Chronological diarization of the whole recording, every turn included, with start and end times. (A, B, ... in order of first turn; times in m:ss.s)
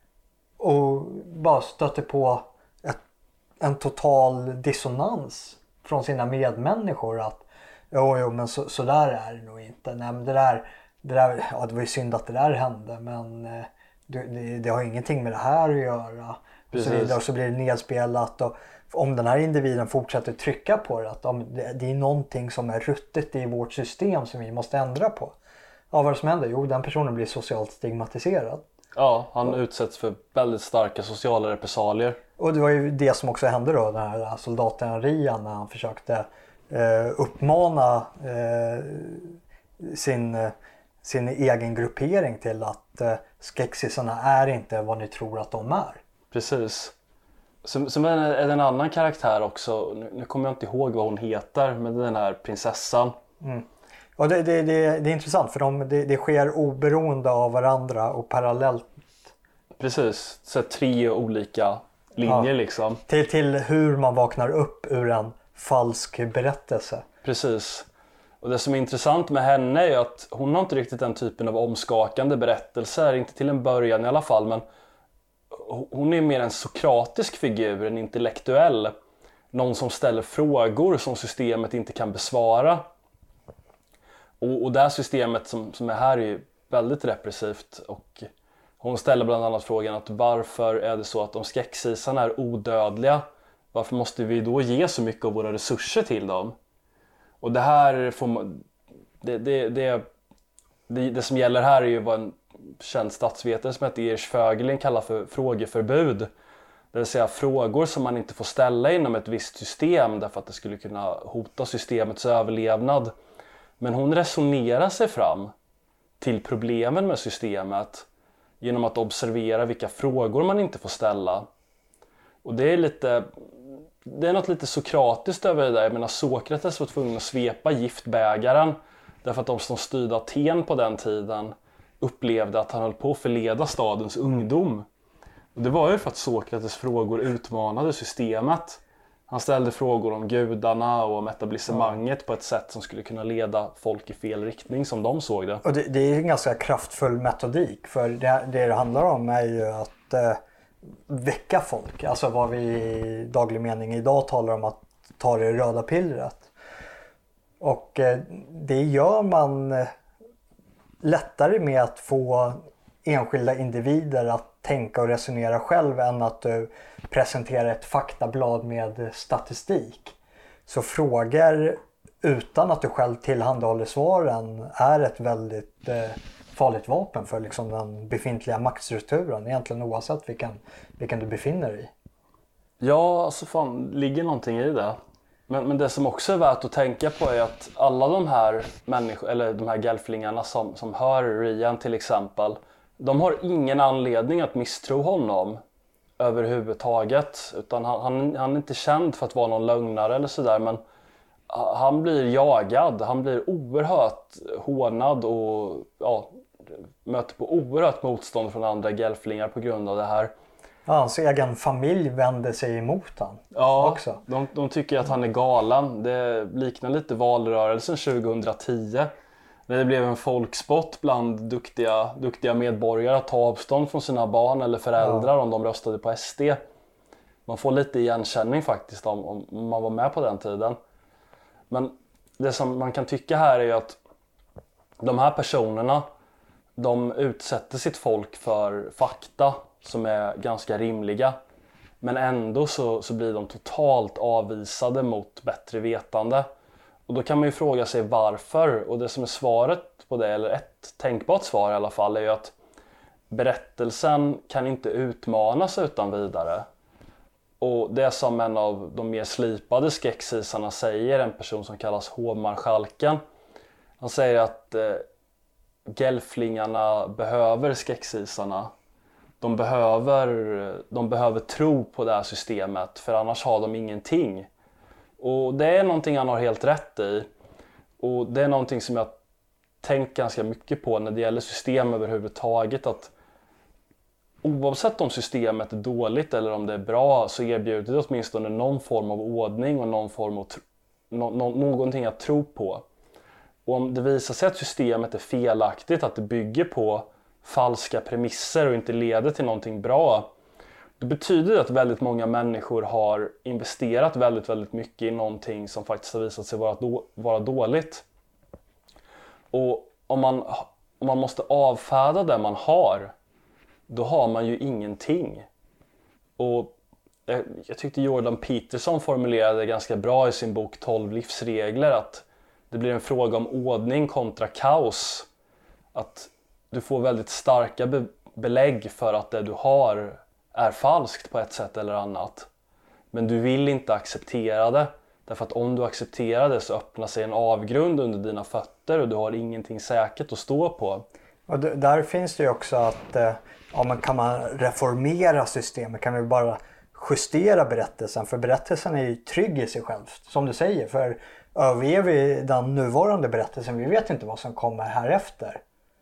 0:00.6-0:03.0 A
0:03.6-0:25.3 A
0:16.7-0:17.2 B
0:25.9-0:28.6 A
0:29.0-0:32.2 B
0:32.4-0:46.0 A
0:46.3-0:46.9 B
0:47.6-0:53.2 B
0:53.4-0:59.3 A
0:59.8-1:03.0 B
1:02.2-1:02.5 A
1:03.1-1:07.0 A
1:07.2-1:07.9 B
1:08.4-1:14.6 B
1:15.5-1:19.0 B
1:19.5-1:22.9 B
1:24.4-1:28.3 B
1:28.8-1:36.6 B
1:37.4-1:38.6 B
1:39.2-1:40.0 B
1:40.9-1:46.3 B
1:46.9-1:53.1 B
1:53.8-1:55.5 B
1:56.2-1:58.0 B
1:58.6-2:01.5 B
2:02.4-2:14.8 B
2:15.5-2:25.6 B
2:21.7-2:22.0 A
2:25.6-2:30.4 A
2:31.1-2:36.5 A
2:37.6-2:39.9 A
2:41.0-2:50.2 A
2:50.7-3:01.9 A
3:02.8-3:05.0 B
3:05.5-3:15.6 B
3:16.2-3:20.8 B
3:21.5-3:30.3 B
3:30.8-3:34.2 A
3:33.5-3:39.1 B
3:39.7-3:46.6 B
3:45.0-3:45.3 A
3:47.5-3:50.8 B
3:51.7-3:54.0 B
3:55.0-3:56.1 B
3:56.8-4:01.4 B
4:02.0-4:06.5 B
4:07.1-4:12.5 B
4:13.3-4:16.6 B
4:17.6-4:23.2 B
4:24.0-4:25.0 B
4:25.9-4:28.7 B
4:29.4-4:34.5 B
4:35.2-4:37.3 B
4:38.0-4:39.2 B
4:39.8-4:43.1 B
4:44.4-4:52.8 B
4:53.6-5:00.3 B
5:01.0-5:08.0 B
5:09.5-5:13.1 B
5:13.9-5:15.5 B
5:16.4-5:16.7 B
5:17.3-5:25.3 B
5:25.9-5:32.5 B
5:33.1-5:41.0 B
5:41.5-5:55.6 A